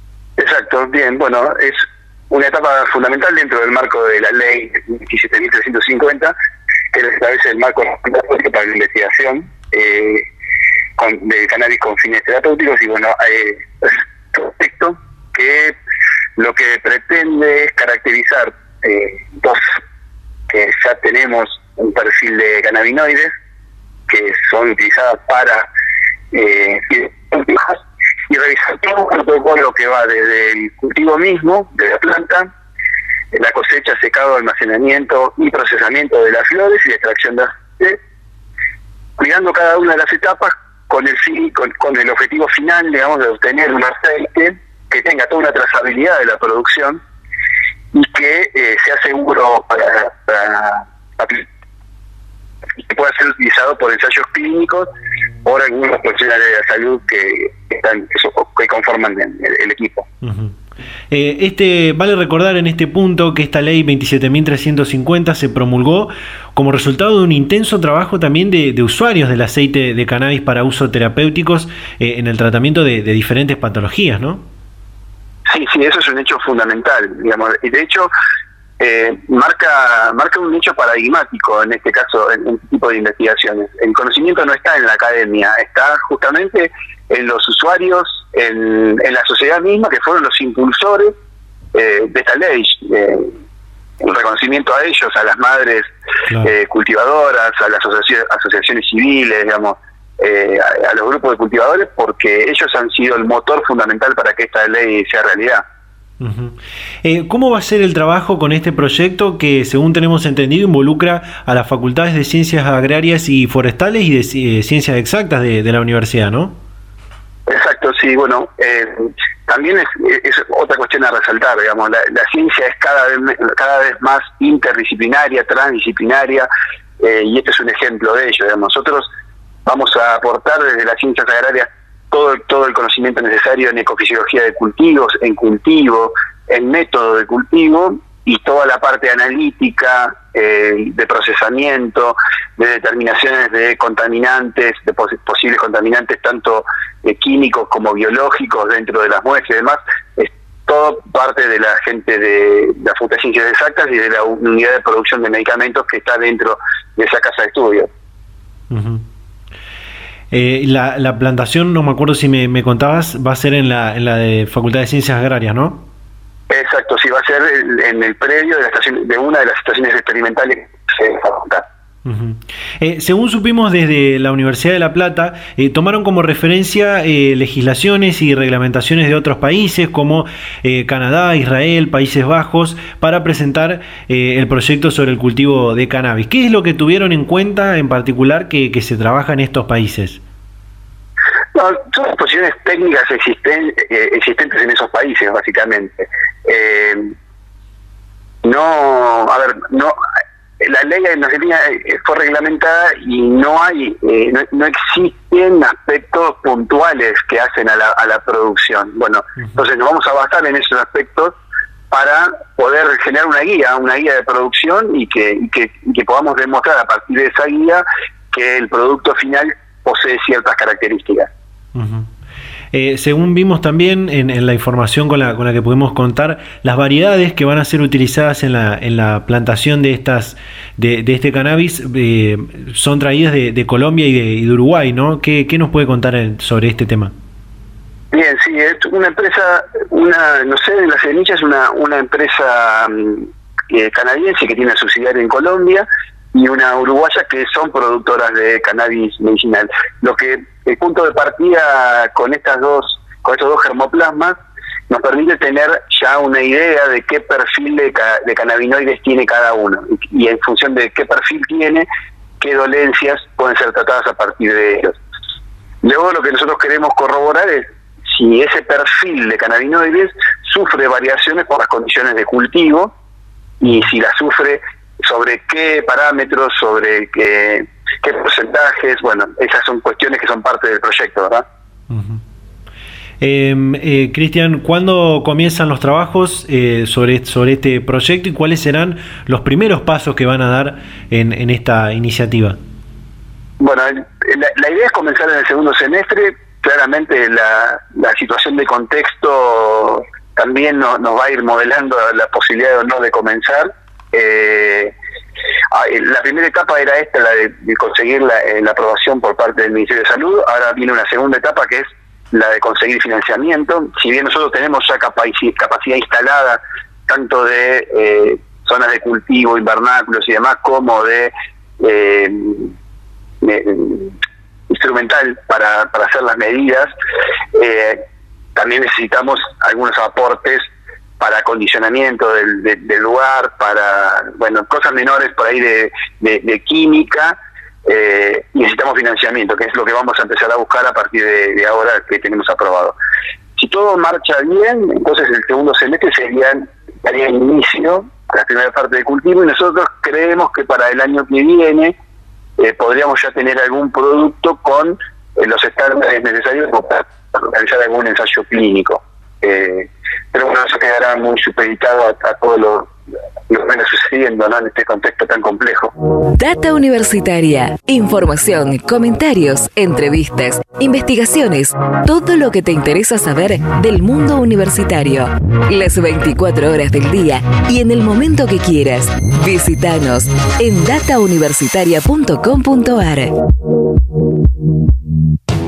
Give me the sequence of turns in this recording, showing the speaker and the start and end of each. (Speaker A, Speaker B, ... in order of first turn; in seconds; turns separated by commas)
Speaker A: 0.4-6.3, Speaker A: 6.9-10.2, Speaker A: 11.0-15.8, Speaker A: 16.4-19.8, Speaker A: 20.5-23.3, Speaker A: 24.1-25.7, Speaker A: 26.3-32.5, Speaker A: 33.3-38.0, Speaker A: 39.2-47.0, Speaker A: 47.9-51.4, Speaker A: 52.8-54.9, Speaker A: 55.4-60.1, Speaker B: 60.2-60.5, Speaker B: 61.1-74.4, Speaker A: 75.5-78.1, Speaker A: 78.8-91.1, Speaker A: 91.7-93.3, Speaker A: 94.0-105.6, Speaker B: 96.3-96.5, Speaker B: 106.2-116.6, Speaker A: 117.5-126.5, Speaker A: 127.0-129.1, Speaker A: 129.7-157.9, Speaker B: 158.7-159.0, Speaker B: 160.3-165.8, Speaker A: 166.5-171.6, Speaker B: 172.0-190.2, Speaker A: 191.5-197.1, Speaker A: 198.4-200.0, Speaker A: 200.6-211.3, Speaker A: 211.9-221.3, Speaker B: 221.7-222.1, Speaker B: 222.7-237.1, Speaker A: 238.1-254.4, Speaker A: 254.9-261.9, Speaker A: 262.4-265.0, Speaker A: 265.8-272.9, Speaker A: 273.6-281.4, Speaker B: 281.9-282.2, Speaker B: 283.2-292.6, Speaker A: 293.6-304.9, Speaker A: 305.7-322.7, Speaker A: 323.4-324.1, Speaker A: 324.7-326.9, Speaker A: 327.5-328.0, Speaker A: 328.5-330.7, Speaker A: 331.2-342.9, Speaker A: 343.6-351.9, Speaker A: 352.6-362.9, Speaker A: 363.5-365.9, Speaker C: 366.3-383.3